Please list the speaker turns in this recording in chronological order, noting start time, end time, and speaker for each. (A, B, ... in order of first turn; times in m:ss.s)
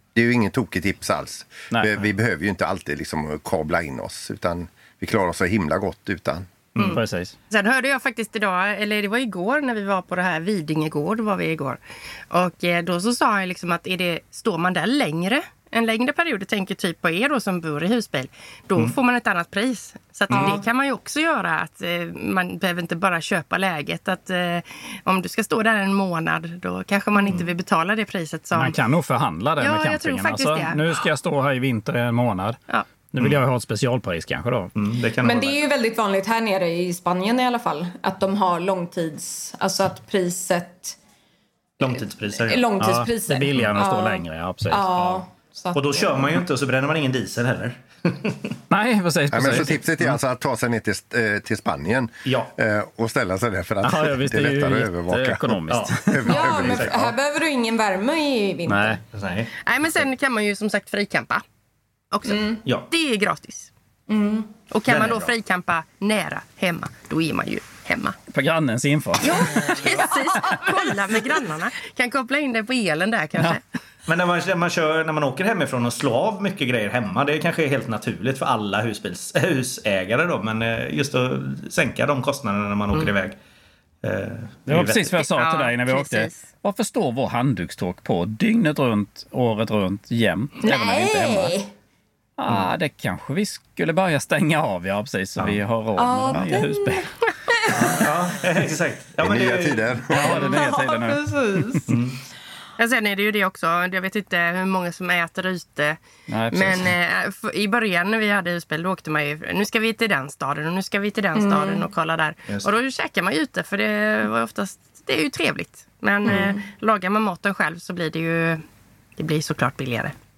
0:00.1-0:06.5 A
0:06.8-0:11.8 B
0:06.9-0:07.3 C
0:12.3-0:28.8 B
0:20.3-0:20.6 D
0:28.5-0:32.6 C
0:29.6-0:31.0 B
0:33.1-0:34.7 C
0:34.8-0:35.6 E
0:35.2-0:41.0 D
0:41.8-0:42.7 E
0:41.8-0:46.4 D
0:42.8-0:45.2 C
0:45.7-0:48.6 E
0:48.7-0:50.1 C
0:49.3-0:57.1 A
0:52.2-0:52.5 E
0:53.8-0:56.5 C
0:55.7-0:55.9 E
0:56.3-0:59.0 D
0:56.6-0:56.9 E
0:58.6-0:59.0 C
0:59.1-0:59.5 E
0:59.6-1:01.4 B
1:02.1-1:03.7 B
1:02.3-1:02.6 D
1:04.1-1:04.5 D
1:04.7-1:08.2 B
1:04.8-1:05.3 E
1:08.3-1:09.8 C
1:09.2-1:13.6 B
1:10.3-1:10.5 D
1:14.0-1:23.4 E
1:24.0-1:25.1 E
1:24.7-1:31.5 C
1:25.1-1:26.4 B
1:30.6-1:31.7 D
1:32.4-1:37.1 C
1:36.0-1:38.1 D
1:37.7-1:40.4 E
1:39.2-1:40.4 A
1:40.1-1:41.8 C
1:40.3-1:41.9 D
1:41.9-1:42.2 E
1:42.8-1:46.0 B
1:46.3-1:46.9 C
1:46.5-1:58.6 B
1:51.3-1:51.9 D
1:56.2-1:56.6 D
1:59.2-2:00.1 B